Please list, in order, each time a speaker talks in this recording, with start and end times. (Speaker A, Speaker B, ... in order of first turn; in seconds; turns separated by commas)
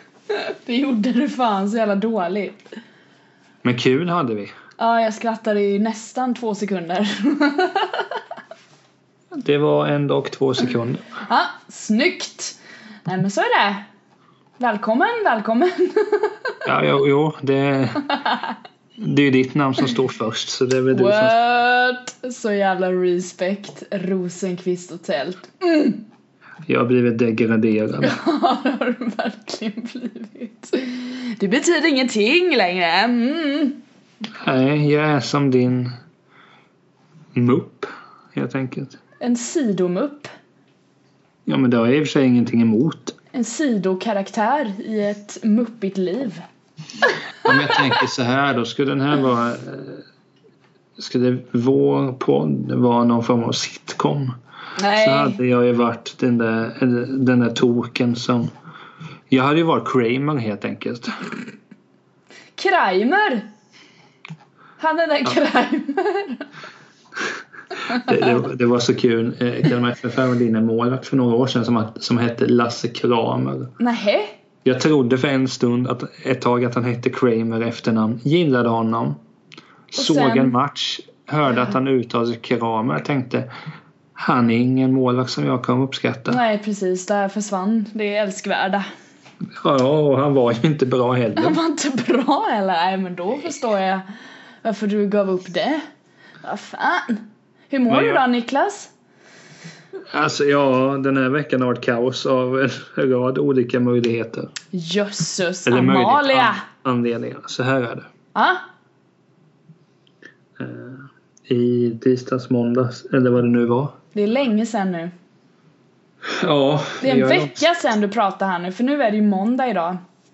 Speaker A: 0.3-2.6, Speaker B: 3.6-4.5, Speaker A: 4.8-8.2, Speaker B: 9.4-11.1, Speaker A: 11.3-13.8, Speaker A: 14.6-16.5, Speaker B: 16.6-18.1, Speaker A: 18.1-18.5, Speaker B: 19.0-21.4, Speaker A: 20.9-26.0, Speaker B: 26.7-28.2, Speaker A: 28.0-33.8, Speaker B: 34.4-35.9, Speaker B: 37.3-39.0, Speaker A: 39.2-40.3, Speaker B: 41.5-43.2, Speaker A: 43.3-46.4, Speaker A: 47.1-47.8, Speaker B: 47.4-50.0, Speaker B: 51.0-54.4, Speaker A: 54.8-55.4, Speaker B: 54.9-58.5, Speaker B: 59.3-61.4, Speaker A: 62.6-63.5, Speaker A: 64.8-66.5, Speaker A: 67.9-68.3, Speaker B: 67.9-73.7, Speaker A: 73.8-74.4, Speaker B: 74.7-79.2, Speaker B: 79.9-83.5, Speaker A: 80.0-80.5, Speaker B: 84.2-86.4, Speaker A: 86.3-88.8, Speaker B: 89.6-91.6, Speaker A: 91.4-94.0, Speaker A: 94.6-95.8, Speaker A: 96.4-98.9, Speaker B: 97.9-98.2, Speaker B: 100.1-104.5, Speaker A: 104.7-106.6, Speaker B: 105.7-108.1, Speaker A: 108.3-108.6, Speaker B: 110.6-114.0, Speaker A: 114.1-115.1, Speaker B: 116.3-117.6, Speaker A: 117.0-120.0